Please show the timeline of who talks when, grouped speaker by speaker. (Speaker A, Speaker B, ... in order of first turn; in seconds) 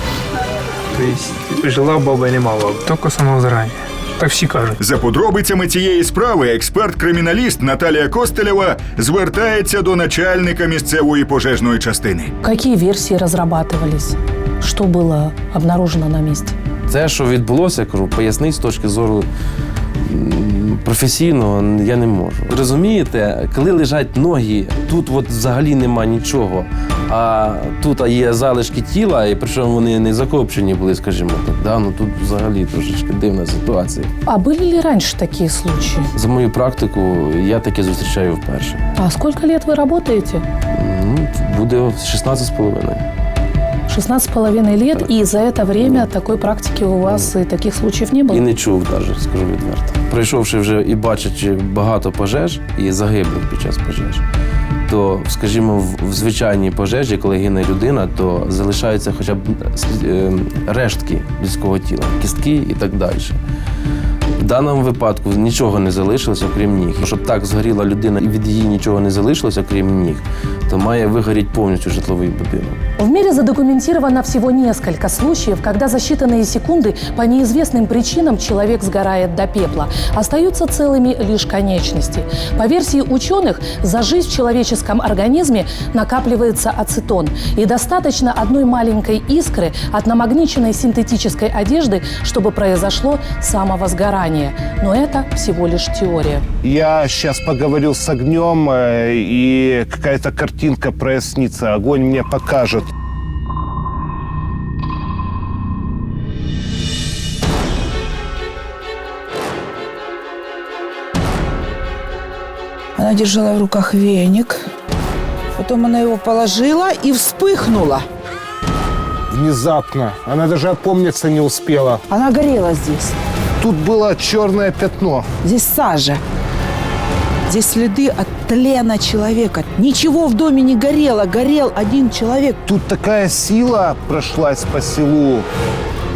Speaker A: 0.9-4.8
Speaker B: 4.8-12.3
Speaker C: 12.4-16.6, 34.2-36.1, 39.0-40.4, 43.9-48.4, 73.0-96.4
Speaker D: 16.9-19.3, 20.1-34.1, 36.1-38.8, 40.8-43.1, 44.9-45.3, 48.3-54.2, 54.9-63.4, 64.4-72.8
Speaker E: 96.6-102.9, 119.3-122.0, 123.6-125.3, 132.6-135.5
Speaker F: 113.0-114.6, 115.6-118.1, 122.1-123.2, 125.4-126.2, 127.5-132.6